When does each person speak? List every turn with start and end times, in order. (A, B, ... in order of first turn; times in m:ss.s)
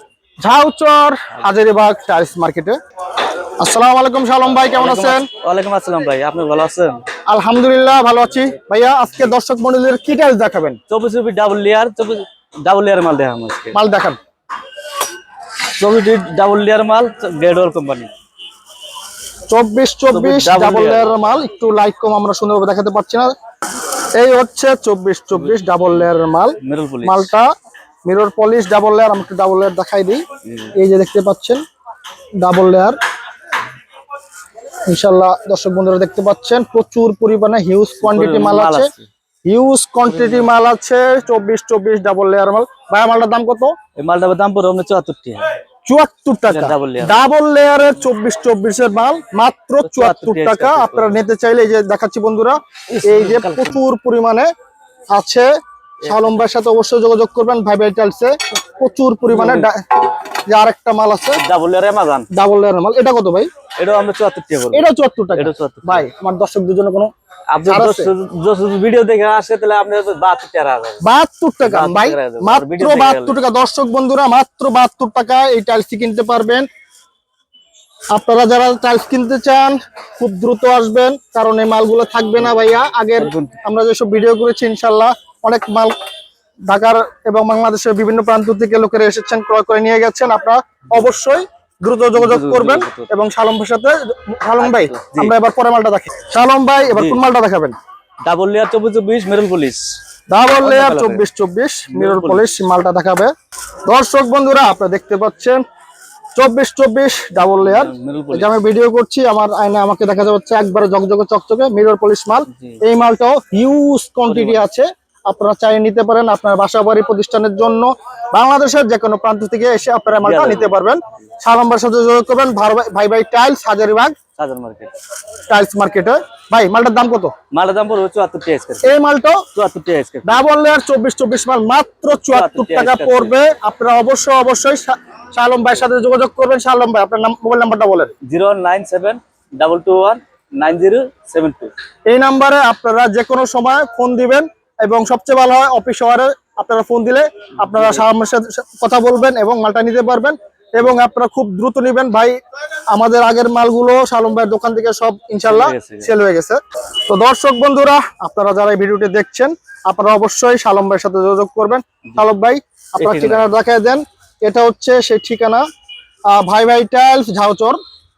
0:00.4-0:02.7 A
0:03.6-0:05.3 A
0:04.5-0:07.0 B
0:07.3-0:10.8 A
0:10.9-0:13.8 B
0:13.7-0:14.2 A
0:15.8-0:18.1 B
0:19.5-0:23.3 A
0:20.1-0:21.3 B
0:24.1-0:27.5 A
0:25.3-0:26.0 B
0:26.6-0:27.3 B
0:28.0-0:30.2 A
0:30.4-0:30.7 B
0:30.8-0:31.6 A
0:32.4-0:33.0 A
0:34.9-0:38.9 A
0:38.0-0:39.1 B
0:39.5-0:43.7 A
0:40.1-0:40.5 B
0:44.0-0:45.6 B
0:45.8-0:54.5 A
0:46.5-0:47.2 B
0:49.8-0:51.2 B
0:52.9-0:53.8 B
0:55.1-0:55.5 A
0:56.0-0:56.5 B
0:56.0-1:00.0 A
0:59.3-0:59.7 B
1:00.5-1:01.4 A
1:01.4-1:02.3 B
1:02.3-1:03.5 A
1:03.8-1:06.1 B
1:04.7-1:07.1 A
1:07.5-1:11.0 B
1:07.6-1:08.1 A
1:11.0-1:16.7 A
1:11.6-1:13.4 B
1:18.1-1:25.9 A
1:23.2-1:23.6 B
1:26.7-1:37.8 A
1:32.1-1:33.1 B
1:34.6-1:35.3 B
1:36.8-1:37.2 B
1:38.2-1:40.0 B
1:40.3-1:43.3 A
1:40.5-1:41.2 B
1:41.9-1:42.5 B
1:43.9-1:45.6 A
1:46.4-2:04.1 A
1:47.6-1:48.6 B
1:52.5-1:52.8 B
1:54.2-1:54.6 B
2:00.2-2:00.8 B
2:04.4-2:04.9 B
2:05.5-2:07.3 A
2:07.5-2:08.9 B
2:08.8-2:09.4 A
2:09.5-2:10.4 B
2:10.2-2:18.1 A
2:12.3-2:13.4 B
2:18.2-2:21.7 B
2:22.1-2:32.4 A
2:27.6-2:28.0 B
2:32.9-2:45.6 A
2:35.4-2:36.1 B
2:43.0-2:43.5 B
2:46.3-2:47.8 A